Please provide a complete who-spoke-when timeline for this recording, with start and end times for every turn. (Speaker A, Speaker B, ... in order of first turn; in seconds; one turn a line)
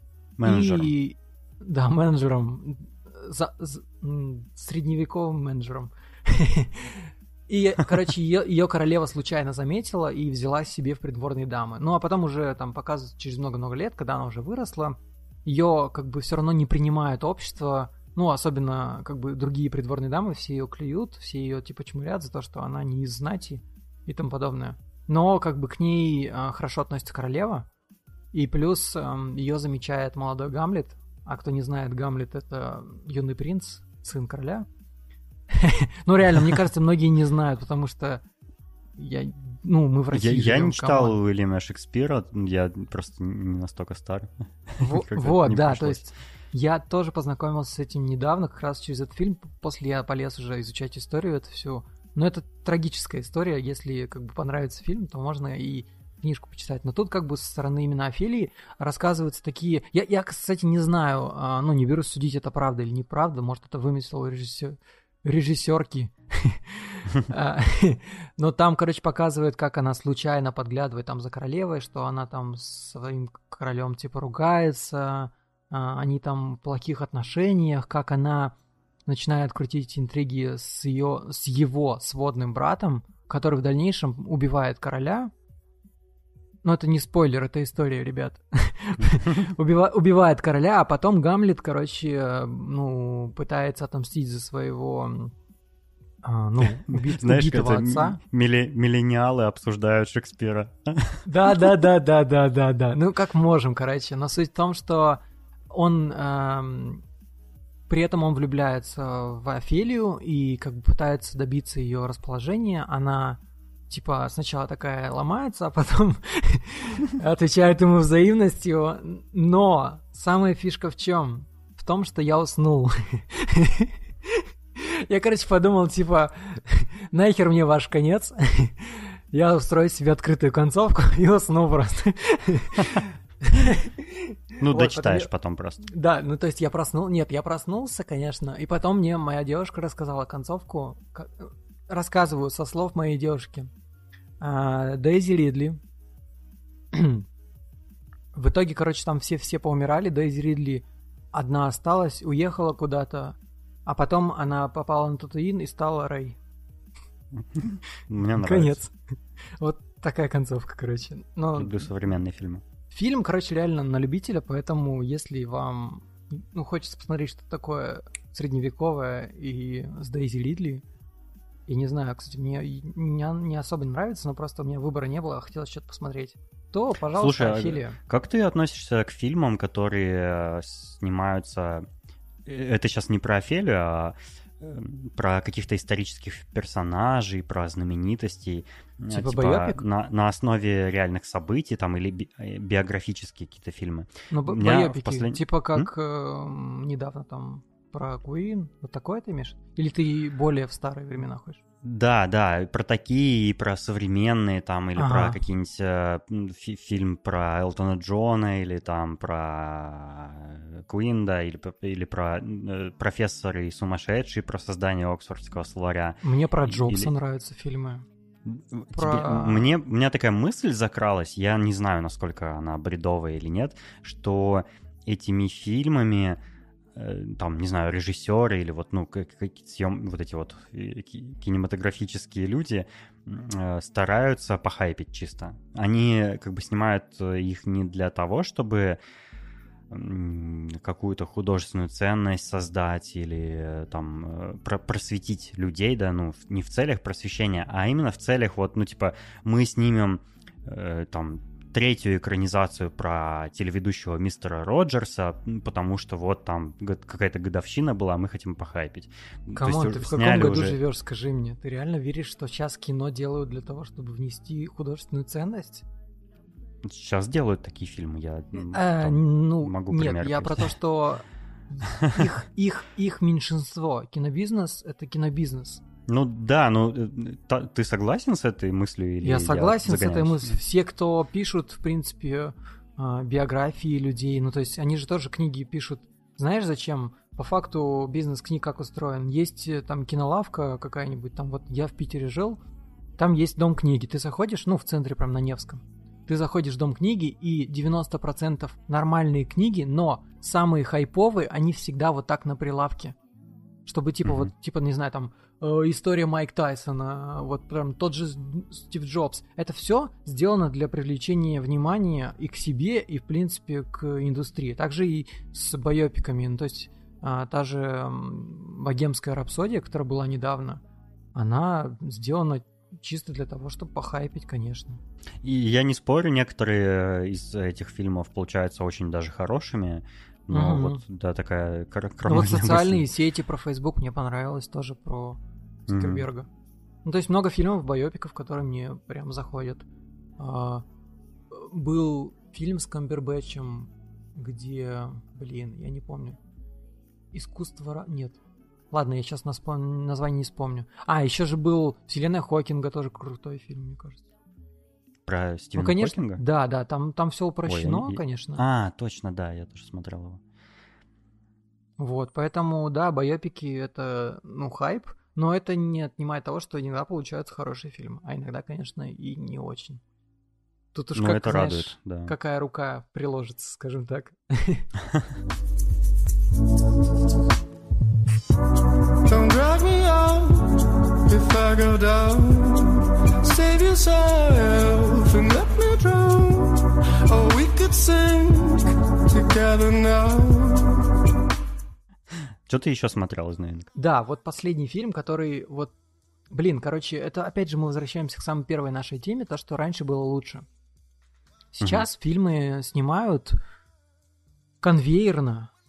Speaker A: 0.4-0.9
Speaker B: 0.4-27.7
Speaker B: 28.3-34.7
Speaker B: 35.5-38.2
Speaker B: 39.0-41.2
Speaker A: 40.1-46.1
Speaker B: 44.8-85.3
Speaker B: 86.6-95.3
Speaker B: 96.2-98.2
Speaker A: 96.7-101.2
Speaker B: 101.2-107.0
Speaker B: 107.9-135.3
Speaker A: 134.6-135.8
Speaker B: 135.8-143.7
Speaker B: 144.4-145.8
Speaker B: 146.9-147.2
Speaker B: 148.3-156.4
Speaker A: 157.4-158.8
Speaker B: 158.3-158.9
Speaker B: 159.6-161.8
Speaker A: 161.5-162.6
Speaker B: 162.9-170.8
Speaker B: 171.7-178.0
Speaker A: 177.1-181.9
Speaker A: 182.4-195.9
Speaker B: 189.1-189.8
Speaker B: 194.3-201.6
Speaker A: 201.8-217.1
Speaker B: 204.9-205.4
Speaker B: 216.2-218.1
Speaker A: 218.4-226.4
Speaker B: 218.9-219.7
Speaker A: 226.9-239.0
Speaker A: 239.9-260.8
Speaker B: 259.6-265.9
Speaker A: 266.8-270.7
Speaker B: 268.5-275.8
Speaker A: 271.9-272.2
Speaker A: 276.1-280.6
Speaker B: 279.2-292.6
Speaker B: 293.2-303.1
Speaker B: 303.9-320.8
Speaker A: 304.2-304.5
Speaker B: 321.3-325.0
Speaker A: 325.4-333.1
Speaker B: 330.5-331.0
Speaker B: 332.3-336.5
Speaker A: 335.9-336.3
Speaker B: 337.0-339.9
Speaker B: 340.4-340.8
Speaker B: 341.5-346.4
Speaker B: 347.3-348.4
Speaker B: 348.9-354.2
Speaker A: 355.3-356.4
Speaker B: 355.8-358.6
Speaker A: 357.6-360.4
Speaker B: 362.0-370.0
Speaker B: 370.9-374.9
Speaker A: 371.1-372.3
Speaker C: 379.2-380.8
Speaker C: 381.3-391.0
Speaker A: 392.7-393.9
Speaker B: 393.9-395.9
Speaker B: 396.5-400.7
Speaker B: 401.7-403.6
Speaker A: 401.8-402.1
Speaker B: 404.8-405.7